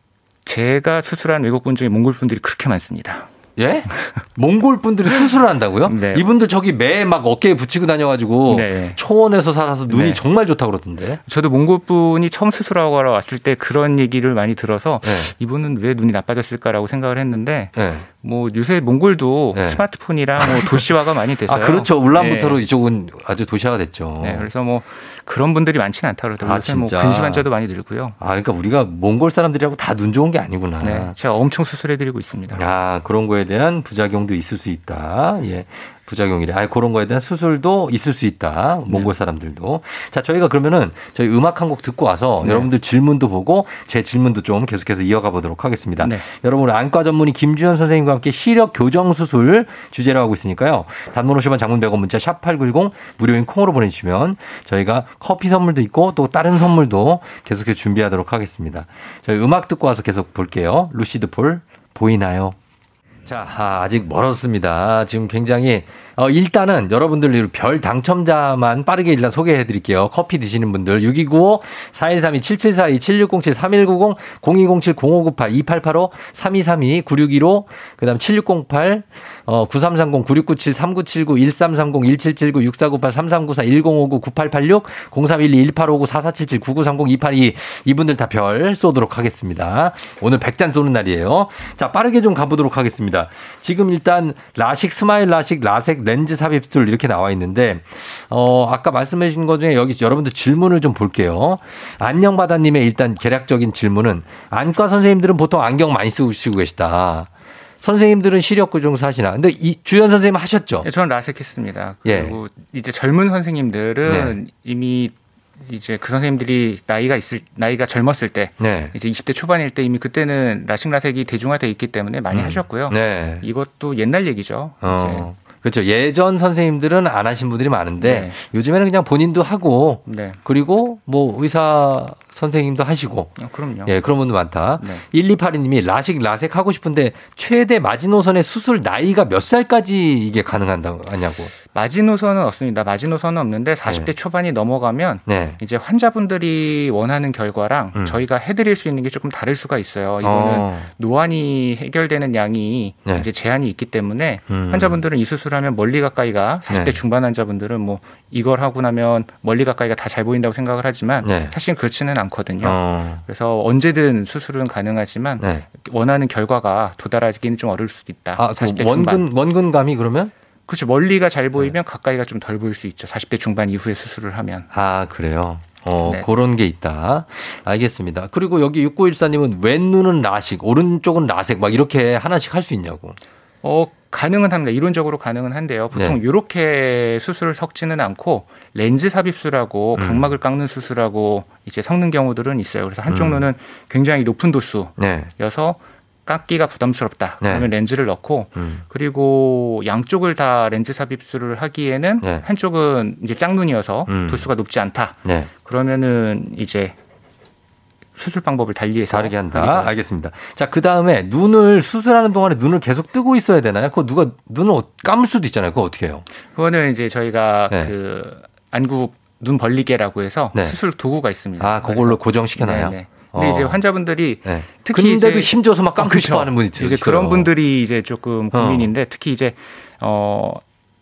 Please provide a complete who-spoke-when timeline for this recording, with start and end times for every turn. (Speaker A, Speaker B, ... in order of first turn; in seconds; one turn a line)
Speaker A: 0.5-3.3
Speaker B: 3.6-11.2
Speaker A: 5.9-6.3
Speaker A: 8.5-9.0
Speaker A: 9.9-10.2
Speaker A: 11.3-22.6
Speaker B: 15.0-15.3
Speaker B: 17.8-18.1
Speaker B: 19.5-19.8
Speaker B: 20.4-20.9
Speaker B: 21.5-24.5
Speaker A: 24.2-28.2
Speaker B: 26.4-27.5
Speaker B: 28.2-31.1
Speaker A: 30.8-32.6
Speaker B: 32.5-62.6
Speaker A: 42.4-42.7
Speaker A: 46.0-46.2
Speaker B: 63.3-107.3
Speaker B: 107.8-110.9
Speaker A: 110.8-125.3
Speaker B: 112.0-112.4
Speaker B: 114.0-114.4
Speaker B: 118.6-118.9
Speaker B: 122.3-123.5
Speaker B: 124.8-141.5
Speaker A: 128.0-128.4
Speaker A: 130.1-130.4
Speaker A: 133.4-133.9
Speaker A: 134.8-135.0
Speaker A: 141.6-169.3
Speaker B: 143.9-144.1
Speaker B: 145.3-145.6
Speaker B: 147.9-148.2
Speaker B: 150.2-150.9
Speaker B: 154.5-155.0
Speaker B: 156.7-157.0
Speaker B: 161.2-161.6
Speaker B: 162.6-163.2
Speaker B: 168.4-170.3
Speaker A: 170.7-174.7
Speaker B: 174.7-183.2
Speaker A: 183.6-207.0
Speaker B: 185.9-186.2
Speaker B: 190.0-190.3
Speaker B: 193.1-193.5
Speaker B: 195.0-195.3
Speaker B: 197.4-197.7
Speaker B: 198.6-198.8
Speaker B: 204.1-204.5
Speaker B: 205.2-205.5
Speaker A: 208.2-209.9
Speaker B: 209.1-216.2
Speaker A: 216.5-230.6
Speaker B: 221.6-223.8
Speaker B: 224.4-227.5
Speaker B: 228.5-228.9